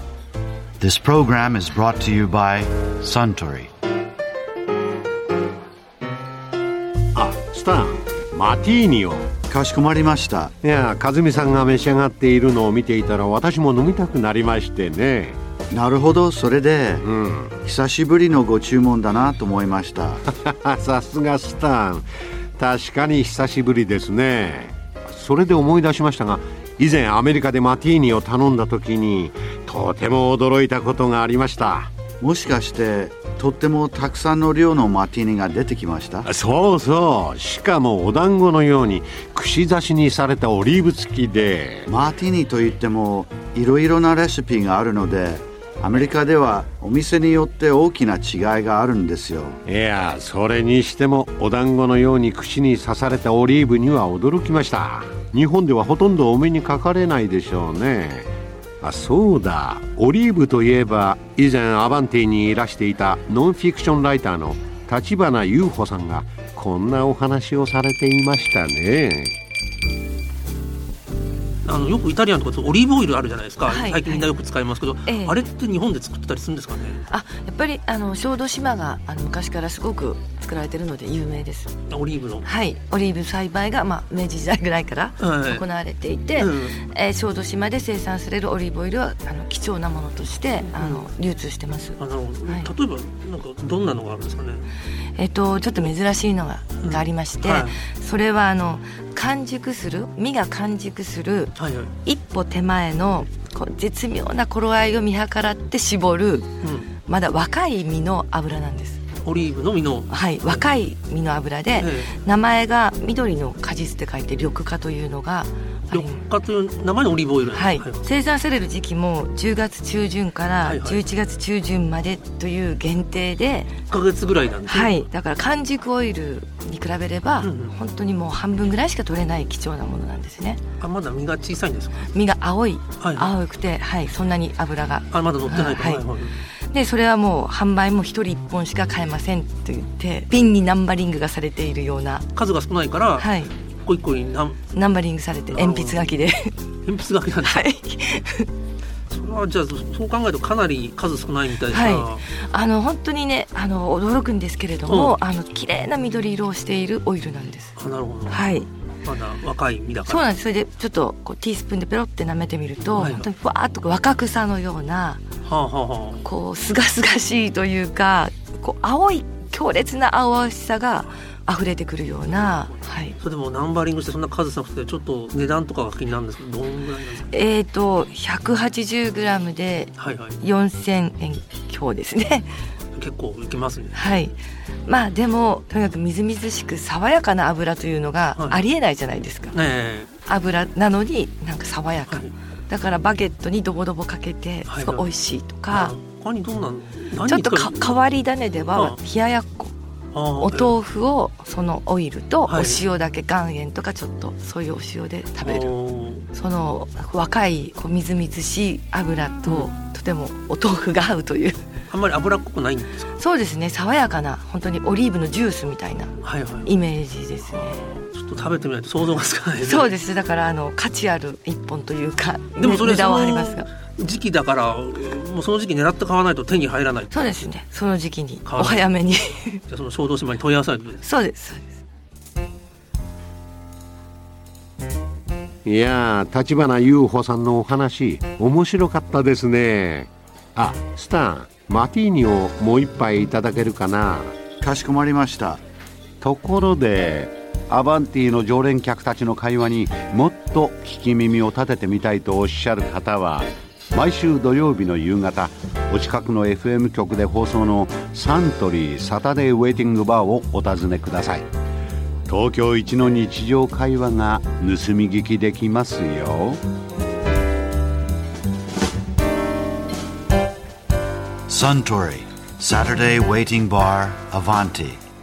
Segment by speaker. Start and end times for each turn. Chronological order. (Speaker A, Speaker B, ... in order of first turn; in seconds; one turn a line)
Speaker A: 0.8-3.7
Speaker B: 7.1-9.3
Speaker A: 9.5-10.5
Speaker B: 10.6-15.4
Speaker A: 15.7-17.1
Speaker B: 17.0-17.5
Speaker A: 17.6-20.2
Speaker B: 20.3-22.1
Speaker B: 22.6-31.9
Speaker A: 32.2-36.3
Speaker B: 36.2-41.9
Speaker A: 41.9-49.6
Speaker B: 49.6-58.3
Speaker B: 58.8-69.3
Speaker C: 71.6-77.0
Speaker D: 73.7-74.3
Speaker D: 75.0-75.4
Speaker D: 77.1-81.7
Speaker C: 81.9-82.5
Speaker D: 82.4-92.7
Speaker C: 85.2-85.6
Speaker C: 86.4-86.8
Speaker C: 90.7-91.0
Speaker C: 92.0-94.7
Speaker D: 95.2-101.5
Speaker C: 96.8-97.8
Speaker C: 101.6-101.9
Speaker D: 102.0-106.5
Speaker C: 106.6-106.9
Speaker D: 107.0-109.0
Speaker C: 109.2-110.6
Speaker D: 110.1-116.2
Speaker C: 111.8-112.1
Speaker C: 115.9-118.0
Speaker D: 117.5-123.8
Speaker C: 120.6-121.0
Speaker C: 123.9-125.0
Speaker D: 124.7-130.6
Speaker C: 127.4-127.7
Speaker C: 130.8-132.1
Speaker D: 132.1-136.0
Speaker C: 133.0-133.3
Speaker C: 135.1-136.4
Speaker D: 136.7-142.3
Speaker C: 142.3-144.6
Speaker D: 143.2-143.5
Speaker D: 144.7-146.6
Speaker C: 145.5-146.1
Speaker C: 146.8-147.7
Speaker D: 147.4-148.5
Speaker C: 149.1-152.2
Speaker D: 151.7-157.7
Speaker C: 154.9-155.1
Speaker C: 157.8-158.5
Speaker D: 158.3-158.7
Speaker C: 159.0-160.2
Speaker D: 160.1-165.2
Speaker C: 162.9-163.3
Speaker C: 165.4-166.2
Speaker D: 166.2-173.2
Speaker C: 172.3-172.7
Speaker C: 173.2-177.3
Speaker D: 177.3-182.5
Speaker C: 180.0-180.4
Speaker C: 182.9-184.0
Speaker D: 183.9-189.6
Speaker C: 189.5-190.1
Speaker D: 190.2-195.9
Speaker C: 194.7-195.1
Speaker C: 195.7-198.0
Speaker D: 197.3-199.7
Speaker C: 200.1-200.7
Speaker D: 200.4-205.7
Speaker C: 202.5-202.8
Speaker C: 205.4-206.2
Speaker D: 206.3-211.6
Speaker C: 211.9-213.1
Speaker D: 213.2-217.8
Speaker C: 216.2-216.7
Speaker C: 217.5-219.9
Speaker D: 219.6-223.7
Speaker C: 222.6-227.4
Speaker D: 227.1-229.6
Speaker C: 228.4-228.9
Speaker C: 229.7-231.0
Speaker D: 231.0-231.8
Speaker B: 235.6-244.3
Speaker A: 244.6-245.6
Speaker B: 246.2-261.5
Speaker B: 262.3-266.6
Speaker A: 271.5-275.0